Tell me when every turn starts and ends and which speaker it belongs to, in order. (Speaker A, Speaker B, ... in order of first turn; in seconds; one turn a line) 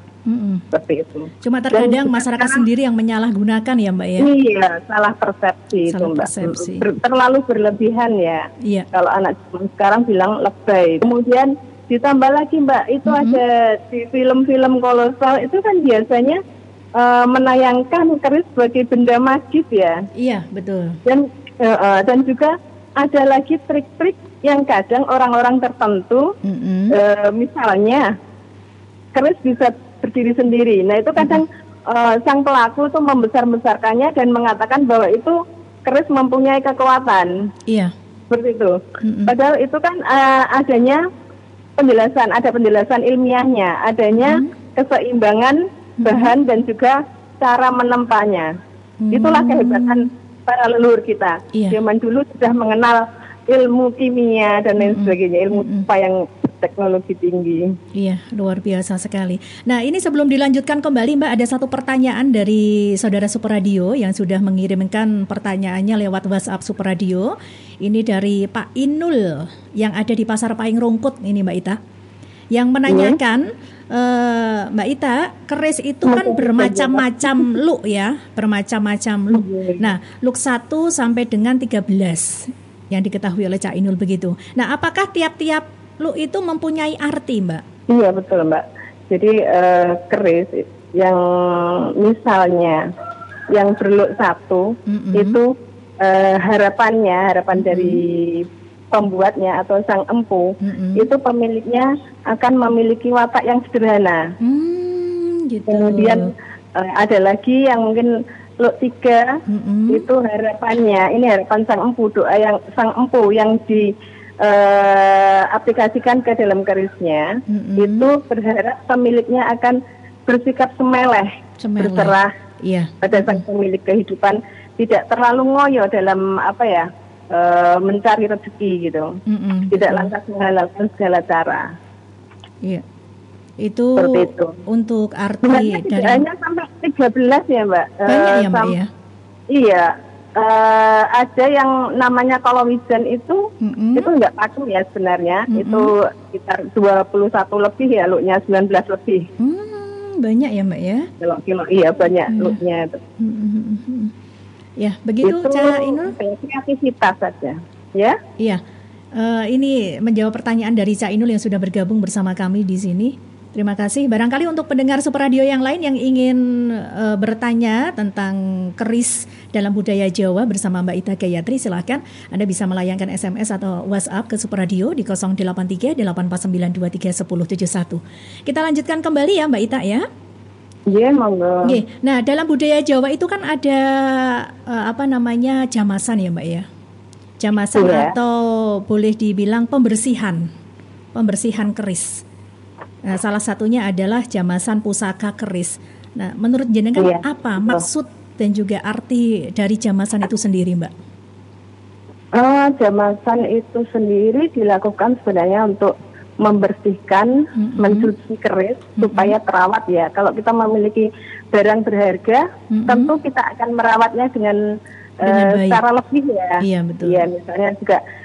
Speaker A: 0.3-0.6
Speaker B: 0.7-2.6
Speaker A: 1.4-4.3
Speaker B: 4.2-16.4
Speaker A: 5.9-6.9
Speaker A: 13.1-13.4
Speaker B: 17.0-20.0
Speaker A: 20.2-21.0
Speaker B: 21.1-26.3
Speaker A: 26.4-27.0
Speaker B: 26.9-28.1
Speaker B: 29.1-37.3
Speaker A: 31.2-31.4
Speaker A: 37.7-37.9
Speaker B: 38.3-41.0
Speaker A: 39.0-39.3
Speaker B: 41.8-48.5
Speaker A: 44.2-44.5
Speaker A: 46.0-46.3
Speaker A: 49.0-50.1
Speaker B: 49.1-57.7
Speaker A: 54.8-55.9
Speaker A: 58.0-71.8
Speaker A: 72.5-87.6
Speaker B: 72.9-73.2
Speaker B: 76.0-77.5
Speaker B: 79.3-79.8
Speaker B: 87.9-92.8
Speaker B: 93.5-104.2
Speaker A: 94.9-95.4
Speaker A: 97.5-98.0
Speaker A: 100.6-101.1
Speaker A: 104.4-106.3
Speaker B: 105.7-109.4
Speaker A: 109.5-110.1
Speaker B: 109.9-122.3
Speaker A: 117.5-118.1
Speaker A: 121.6-123.5
Speaker B: 123.0-129.1
Speaker A: 129.3-130.1
Speaker B: 129.7-131.7
Speaker A: 133.6-136.3
Speaker B: 134.0-134.6
Speaker B: 135.4-138.8
Speaker A: 138.1-138.9
Speaker B: 139.5-143.4
Speaker A: 143.6-144.1
Speaker B: 143.9-149.3
Speaker A: 145.5-145.9
Speaker A: 149.4-151.1
Speaker B: 151.2-153.0
Speaker A: 152.3-152.6
Speaker A: 153.2-154.1
Speaker A: 154.8-156.2
Speaker B: 155.2-158.2
Speaker A: 159.2-180.1
Speaker B: 180.9-181.8
Speaker A: 181.6-186.7
Speaker A: 187.4-190.4
Speaker B: 187.8-188.2
Speaker A: 191.2-192.2
Speaker A: 193.1-200.9
Speaker B: 197.0-197.8
Speaker B: 202.3-214.6
Speaker A: 207.6-208.1
Speaker A: 209.0-209.3
Speaker A: 212.7-213.2
Speaker B: 215.2-218.0
Speaker A: 215.2-215.8
Speaker A: 216.6-217.3